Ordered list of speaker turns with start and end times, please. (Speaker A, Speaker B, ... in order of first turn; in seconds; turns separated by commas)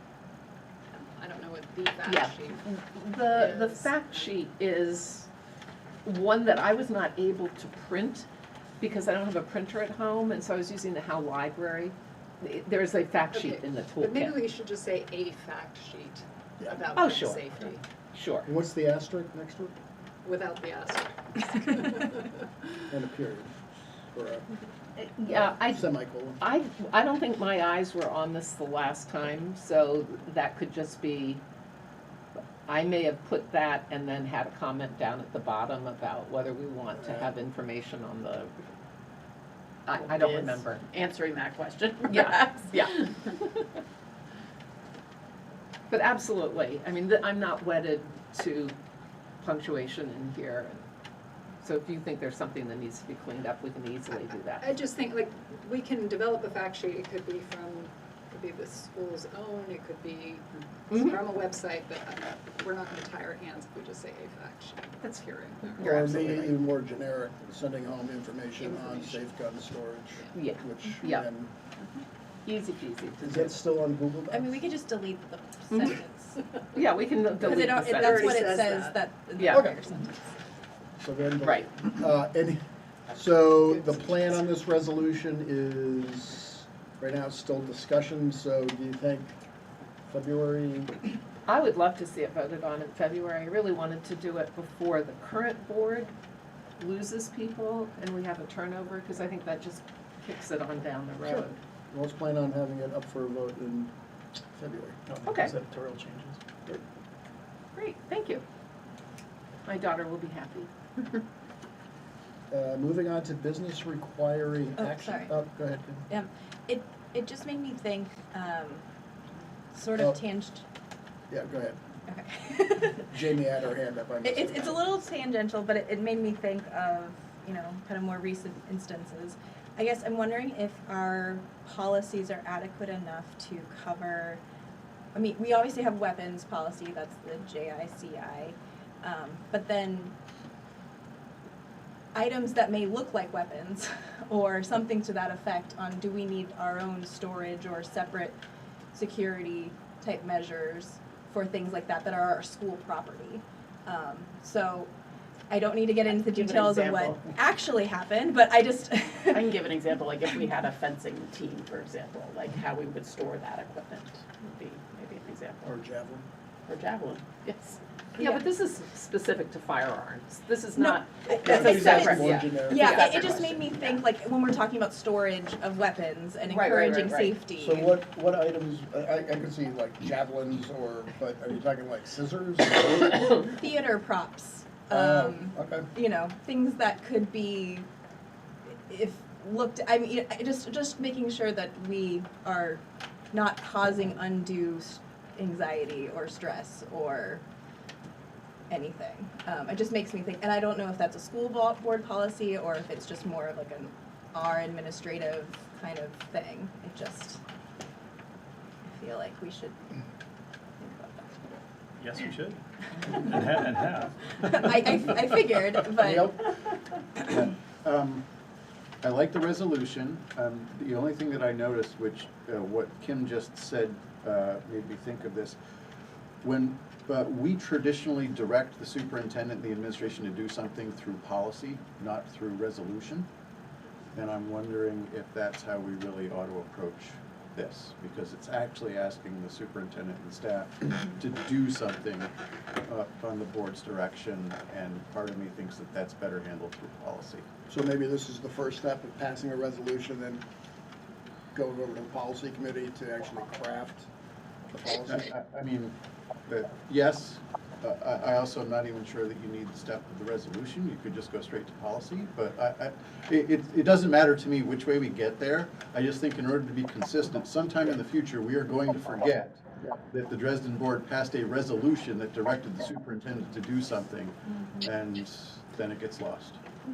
Speaker A: 0.9-2.6, Speaker B: 2.0-5.3, Speaker A: 3.3-4.0, Speaker B: 6.0-8.3, Speaker B: 8.8-14.4, Speaker A: 13.3-17.8, Speaker B: 16.9-17.5, Speaker B: 18.1-18.5, Speaker C: 18.4-19.8, Speaker A: 20.2-22.3, Speaker C: 22.9-23.5, Speaker C: 24.1-24.5, Speaker B: 25.0-31.4, Speaker C: 25.2-26.4, Speaker B: 32.6-38.5, Speaker B: 39.9-40.9, Speaker D: 39.9-42.6, Speaker B: 42.0-43.4, Speaker B: 45.9-48.7, Speaker B: 49.4-50.8, Speaker B: 51.6-54.8, Speaker A: 54.6-66.5, Speaker B: 65.8-66.3, Speaker C: 65.8-71.5, Speaker A: 68.6-69.2, Speaker B: 70.3-71.2, Speaker B: 72.4-73.6, Speaker C: 73.2-74.6, Speaker E: 74.3-76.5, Speaker B: 75.7-76.0, Speaker B: 76.7-78.4, Speaker E: 77.4-80.2, Speaker A: 77.5-79.0, Speaker C: 79.5-79.8, Speaker C: 81.0-82.6, Speaker B: 81.4-81.7, Speaker C: 83.1-89.3, Speaker C: 90.1-91.0, Speaker B: 91.5-96.1, Speaker B: 96.8-101.6, Speaker C: 101.2-103.9, Speaker C: 104.5-106.8, Speaker B: 105.2-105.5, Speaker B: 107.7-108.4, Speaker B: 109.6-111.2, Speaker C: 112.5-116.0, Speaker E: 114.8-115.3, Speaker E: 116.1-118.8, Speaker E: 119.7-120.6, Speaker C: 121.3-121.8, Speaker E: 122.1-123.1, Speaker C: 123.0-124.8, Speaker E: 124.2-134.4, Speaker E: 135.1-140.1, Speaker E: 142.1-148.4, Speaker E: 148.9-154.9, Speaker E: 155.5-159.5, Speaker D: 156.2-157.2, Speaker D: 159.3-165.6, Speaker C: 165.6-166.2, Speaker D: 166.7-167.8, Speaker B: 168.2-173.8, Speaker E: 168.2-168.4, Speaker E: 170.8-172.0, Speaker C: 171.4-173.1, Speaker E: 172.6-177.9, Speaker D: 173.1-173.4, Speaker B: 176.4-177.4, Speaker C: 177.5-183.4, Speaker E: 183.3-187.9, Speaker C: 184.9-185.9, Speaker E: 188.9-197.4, Speaker E: 198.7-207.4, Speaker E: 208.8-209.8, Speaker E: 210.8-211.5, Speaker F: 212.0-212.6, Speaker F: 213.2-214.6, Speaker E: 214.4-216.6, Speaker G: 216.0-216.4, Speaker G: 217.1-218.2, Speaker G: 219.0-225.6, Speaker G: 226.4-233.3, Speaker G: 234.1-242.3, Speaker G: 242.9-247.5, Speaker C: 247.7-250.4, Speaker C: 251.5-254.1, Speaker C: 254.7-255.3, Speaker G: 255.1-255.9, Speaker G: 256.5-276.6